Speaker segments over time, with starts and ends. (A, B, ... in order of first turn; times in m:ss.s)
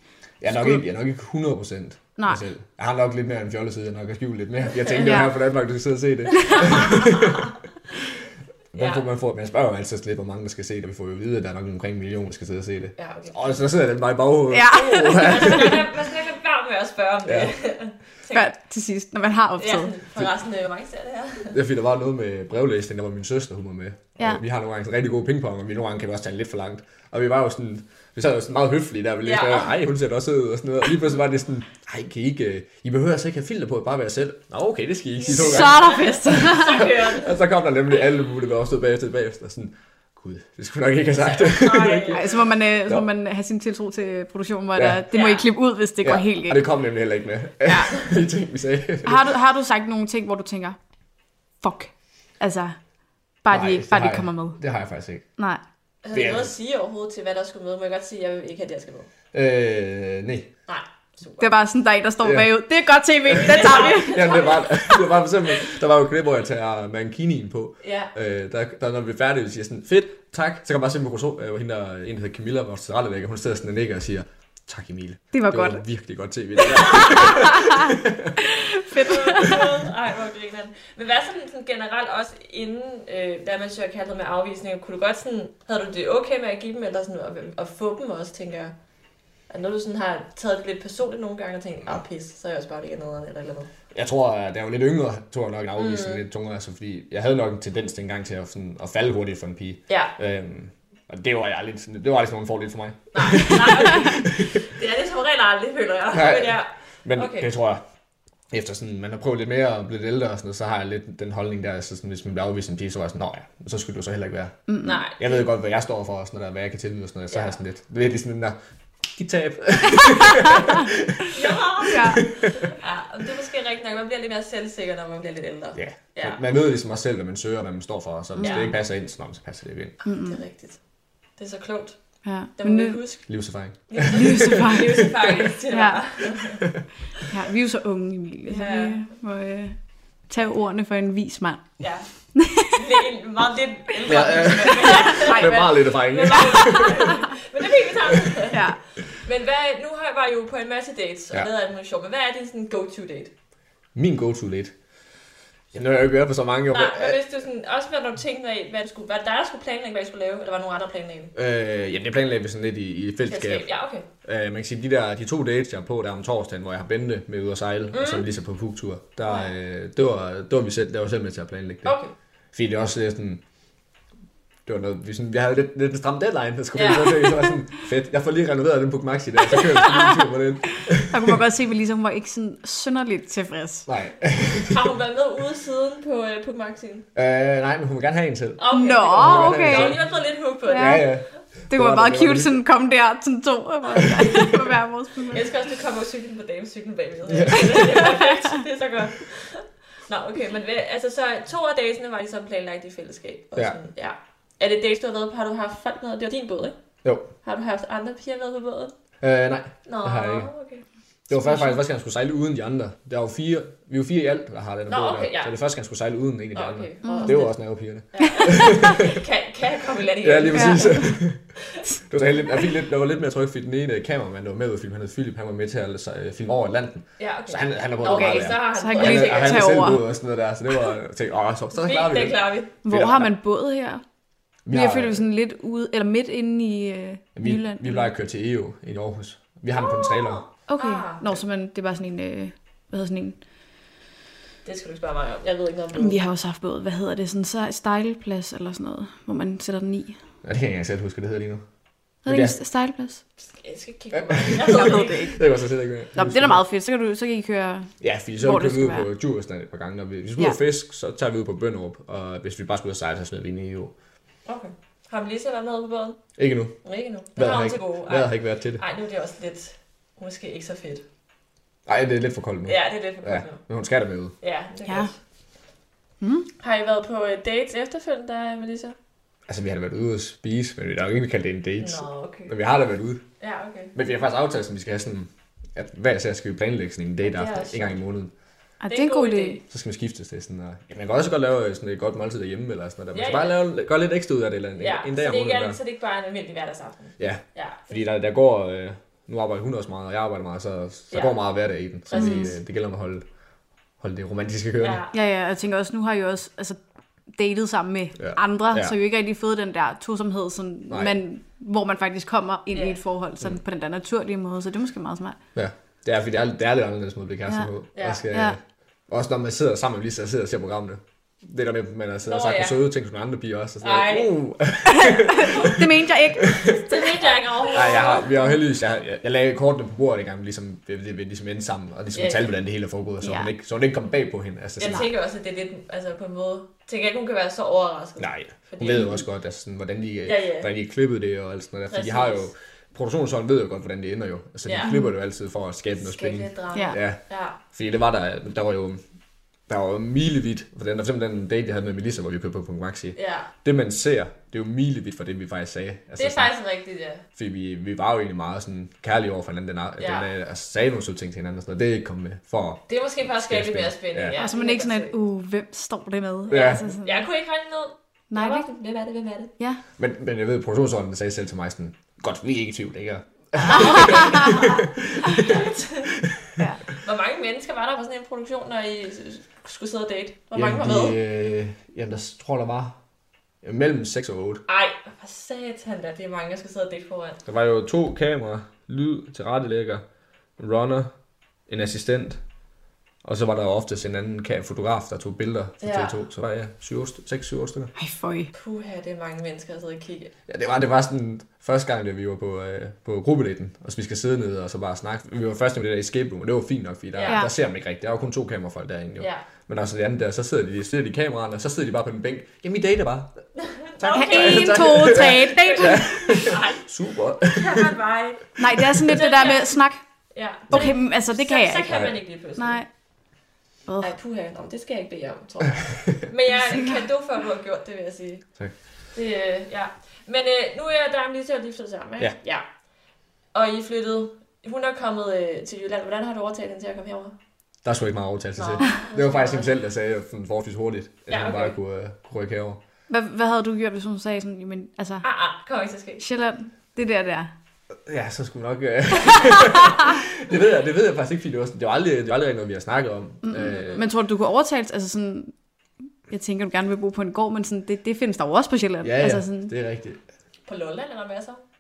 0:00.4-0:08.2 A
0:00.4-0:00.8 B
0:04.9-0:05.1 C
0:05.0-0:05.4 B
0:06.5-0:07.4 C
0:08.7-0:15.8 A
0:08.8-0:09.0 C
0:13.0-0:13.6 C
0:14.5-0:15.7 B
0:15.2-0:18.5 C
0:17.3-0:17.5 A
0:18.3-0:19.9 B
0:19.6-0:21.6 C
0:21.5-0:42.3 A
0:29.2-0:29.7 C
0:35.3-0:36.9 B
0:35.3-0:37.4 C
0:41.2-0:42.3 C
0:42.1-0:46.6 B
0:44.8-0:45.1 A
0:45.1-0:45.5 C
0:46.0-0:49.3 A
0:47.6-0:48.0 B
0:49.0-0:50.8 B
0:51.6-0:52.8 B
0:53.4-0:54.6 B
0:53.5-0:55.2 A
0:56.0-0:59.1 C
0:56.1-0:56.5 A
0:59.3-1:00.5 A
1:00.7-1:01.5 C
1:01.4-1:04.4 B
1:02.2-1:02.5 A
1:03.3-1:18.4 A
1:03.3-1:05.1 C
1:07.8-1:08.1 C
1:15.3-1:15.8 B
1:16.7-1:17.2 C
1:17.1-1:19.6 B
1:19.0-1:28.7 C
1:29.5-1:33.7 C
1:33.9-1:44.6 A
1:35.8-1:36.2 C
1:43.1-1:47.5 C
1:46.1-1:47.8 A
1:48.5-1:54.6 A
1:54.7-1:55.0 B
1:54.8-1:55.5 C
1:55.2-2:02.7 A
1:57.3-1:57.6 C
2:01.3-2:06.4 C
2:01.9-2:02.2 B
2:05.8-2:10.0 A
2:08.4-2:08.7 B
2:08.4-2:08.7 C
2:10.0-2:10.8 C
2:10.0-2:10.4 B
2:11.4-2:12.0 C
2:12.2-2:13.0 B
2:12.6-2:13.3 C
2:13.3-2:15.3 A
2:13.9-2:16.6 C
2:14.1-2:15.1 B
2:15.7-2:16.0 B
2:17.3-2:22.8 B
2:18.5-2:19.1 C
2:21.8-2:33.3 C
2:24.1-2:27.1 A
2:24.7-2:25.6 B
2:26.4-2:27.2 B
2:28.5-2:28.8 B
2:34.0-2:34.7 A
2:35.7-2:37.2 A
2:36.7-2:41.3 C
2:41.4-2:43.7 A
2:43.3-2:44.1 C
2:44.2-2:52.0 A
2:47.9-2:48.2 C
2:51.8-2:52.1 C
2:52.5-2:53.4 A
2:54.7-3:01.4 A
2:56.7-2:57.3 C
3:01.1-3:03.9 B
3:03.9-3:04.9 A
3:04.7-3:07.1 C
3:07.2-3:10.1 A
3:08.6-3:11.2 C
3:08.7-3:10.0 B
3:10.7-3:11.1 B
3:10.7-3:12.6 A
3:11.7-3:15.4 B
3:14.0-3:14.7 A
3:15.3-3:26.8 C
3:17.3-3:17.9 A
3:27.0-3:27.3 A
3:27.4-3:29.0 C
3:29.2-3:30.5 A
3:29.9-3:30.8 C
3:31.3-3:39.2 A
3:34.9-3:35.5 C
3:36.5-3:37.6 C
3:37.0-3:37.4 B
3:38.1-3:41.1 C
3:40.2-3:41.5 A
3:40.5-3:41.2 B
3:42.1-3:53.3 A
3:47.2-3:49.9 C
3:48.0-3:50.0 B
3:51.7-3:52.7 C
3:52.8-3:54.0 B
3:54.6-3:55.2 A
3:54.7-3:58.1 B
3:57.4-4:00.4 A
3:59.8-4:01.4 C
4:00.7-4:03.4 B
4:04.6-4:06.2 C
4:06.0-4:10.2 B
4:10.4-4:11.6 A
4:12.2-4:13.2 B
4:12.3-4:12.6 A
4:13.5-4:15.4 C
4:14.1-4:16.6 A
4:14.6-4:15.4 B
4:16.2-4:19.1 B
4:18.0-4:23.9 A
4:24.5-4:26.2 C
4:26.4-4:26.8 A
4:26.8-4:31.0 C
4:27.4-4:28.8 A
4:31.9-4:34.3 A
4:32.7-4:33.6 C
4:34.4-4:35.2 C
4:36.2-4:36.5 B
4:36.6-4:39.0 C
4:39.5-4:43.2 A
4:41.8-4:42.5 C
4:43.4-4:43.9 C
4:43.9-4:48.3 A
4:47.2-4:48.0 C
4:48.8-4:49.6 B
4:48.9-4:49.6 C
4:49.7-4:55.8 A
4:53.1-4:53.6 C
4:54.8-4:58.0 C
4:57.2-5:03.2 A
5:01.1-5:01.4 C
5:02.1-5:02.5 C
5:02.1-5:02.5 B
5:04.0-5:05.0 A
5:04.8-5:05.2 C
5:05.1-5:06.8 B
5:07.3-5:15.4 B
5:08.2-5:09.0 A
5:10.9-5:11.2 A
5:12.7-5:13.0 C
5:15.6-5:25.9 A
5:18.0-5:18.2 C
5:18.3-5:18.6 B
5:22.2-5:22.8 C
5:23.8-5:24.3 C
5:24.9-5:27.4 B
5:26.4-5:26.8 A
5:26.9-5:28.3 C
5:27.7-5:35.1 A
5:32.1-5:32.5 C
5:33.2-5:33.5 B
5:34.8-5:39.2 C
5:38.2-5:49.0 A
5:40.2-5:40.7 C
5:41.9-5:42.5 C
5:44.6-5:45.0 C
5:45.9-5:47.6 C
5:46.7-5:47.0 B
5:49.7-5:56.5 A
5:53.2-5:53.5 C
5:56.2-5:57.2 C
5:57.4-6:04.4 A
6:00.0-6:00.3 C
6:02.9-6:05.2 C
6:04.4-6:07.3 B
6:06.5-6:06.8 A
6:06.5-6:09.5 C
6:08.3-6:08.7 B
6:10.0-6:15.7 A
6:13.6-6:14.6 B
6:13.6-6:16.2 C
6:16.9-6:21.2 C
6:20.6-6:23.0 A
6:23.6-6:24.6 A
6:24.7-6:27.4 C
6:27.5-6:30.0 A
6:30.6-6:31.1 A
6:31.7-6:32.4 A
6:33.2-6:37.9 A
6:35.8-6:36.2 C
6:38.0-6:38.5 B
6:38.5-6:40.3 C
6:40.5-6:53.4 A
6:47.1-6:47.4 C
6:49.2-6:49.4 C
6:53.6-6:56.8 C
6:54.0-6:58.0 A
6:54.1-6:56.5 B
6:57.5-6:59.8 C
6:58.6-7:00.0 B
6:58.8-6:59.1 A
7:00.3-7:02.8 C
7:00.7-7:01.9 B
7:01.9-7:02.2 A
7:02.6-7:02.9 B
7:03.9-7:04.1 B
7:04.0-7:08.5 C
7:06.7-7:07.0 B
7:09.1-7:12.6 C
7:13.5-7:17.4 C
7:17.8-7:22.8 A
7:18.6-7:19.7 C
7:21.3-7:21.8 C
7:23.1-7:25.2 B
7:25.2-7:26.2 C
7:26.2-7:27.5 B
7:28.1-7:34.0 A
7:29.5-7:29.8 B
7:33.4-7:35.5 B
7:36.3-7:39.7 B
7:39.0-7:40.2 A
7:40.7-7:41.6 C